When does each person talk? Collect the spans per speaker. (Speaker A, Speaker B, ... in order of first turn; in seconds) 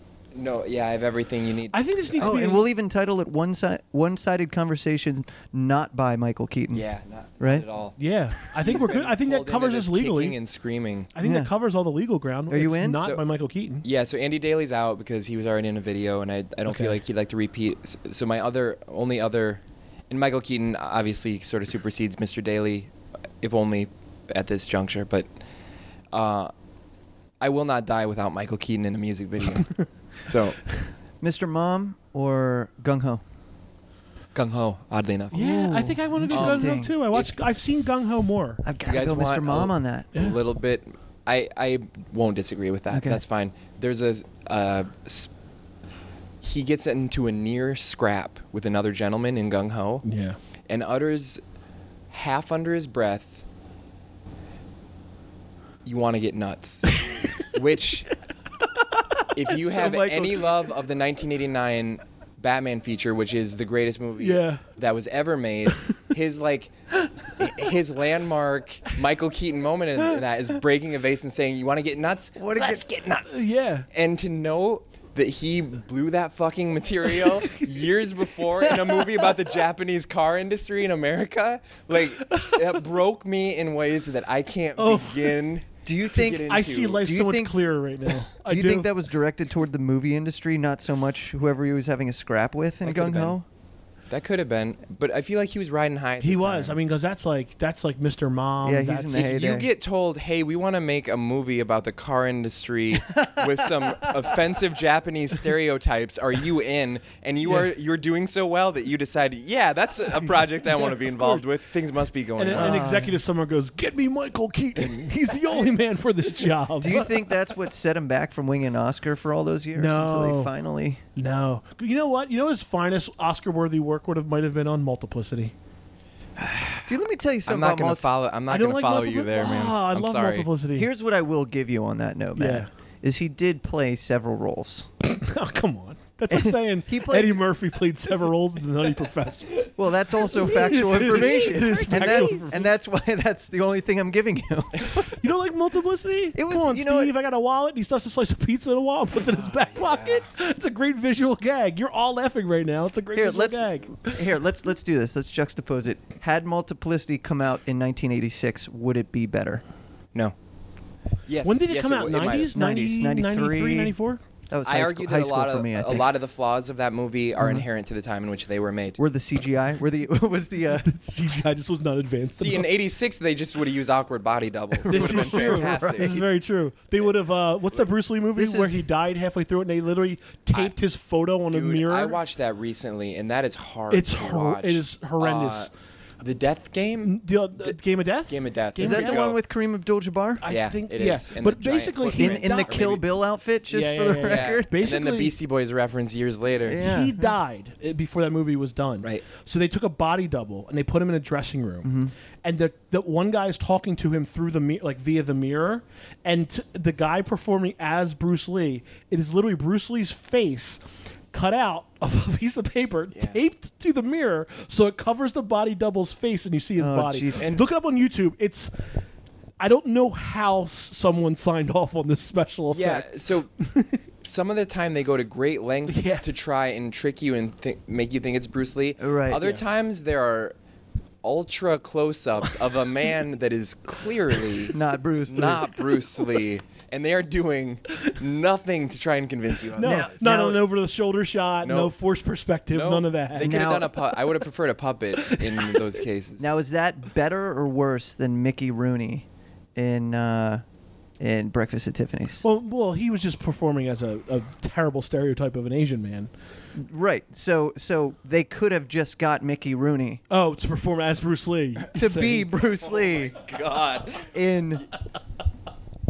Speaker A: 0.3-2.3, 6.7-11.1, 13.8-22.9, 23.4-25.3, 26.1-26.5, 27.4-30.7, 34.3-35.6, 36.3-37.4, 38.8-45.3, 46.4-50.0, 50.7-51.4, 52.1-53.4, 55.9-58.1, 59.4-66.7, 67.3-87.0, 92.8-93.3, 94.1-96.8, 99.1-112.8, 114.8-115.1, 126.4-127.0, 127.5-130.5, 149.3-150.3, 161.3-162.6, 164.6-169.0, 172.4-176.2, 181.5-185.7, 186.2-187.8, 188.3-189.4, 190.5-193.1, 194.2-196.8, 222.7-223.5, 224.2-230.6, 231.2-240.1, 241.6-241.9, 242.7-246.5, 263.1-264.3
Speaker B: 1.7-2.7, 8.0-10.4, 11.2-13.8, 16.7-17.0, 35.3-38.6, 50.0-50.4, 64.2-64.7, 73.3-73.9, 82.2-82.6, 84.8-85.4, 86.5-88.9, 96.2-99.3, 110.7-111.5, 112.4-117.2, 119.7-120.5, 121.2-125.5, 128.5-130.9, 132.4-132.7, 135.1-142.7, 145.1-154.2, 161.4-164.2, 170.8-172.7, 174.9-182.2, 183.9-185.7, 187.0-189.3, 190.4-192.8, 193.7-195.3, 196.8-201.9, 202.4-210.8, 211.3-218.7, 219.6-223.1, 223.6-224.0, 225.9-226.2, 239.8-243.7, 245.3-245.8, 252.4-256.3, 260.3-262.5
Speaker C: 2.2-6.9, 7.4-7.7, 11.2-11.5, 12.5-13.1, 31.2-33.2, 35.4-37.0, 38.6-40.1, 42.9-43.2, 59.5-60.5, 72.4-72.9, 85.8-87.7, 88.3-93.5, 98.6-99.7, 112.5-113.2, 116.8-121.0, 126.9-128.1, 130.7-134.9, 136.3-137.4, 139.8-145.1, 146.3-147.1, 153.1-159.6, 162.5-163.9, 164.5-166.1, 167.4-167.7, 169.0-170.9, 174.9-176.2, 178.4-178.8, 188.8-190.4, 192.2-194.7, 196.7-197.2, 201.8-202.1, 216.8-217.5, 229.0-229.5, 234.7-235.7, 239.8-240.6, 243.4-244.0, 246.4-249.2, 249.8-250.6, 251.2-252.4, 256.8-260.2, 261.9-263.4, 264.3-264.9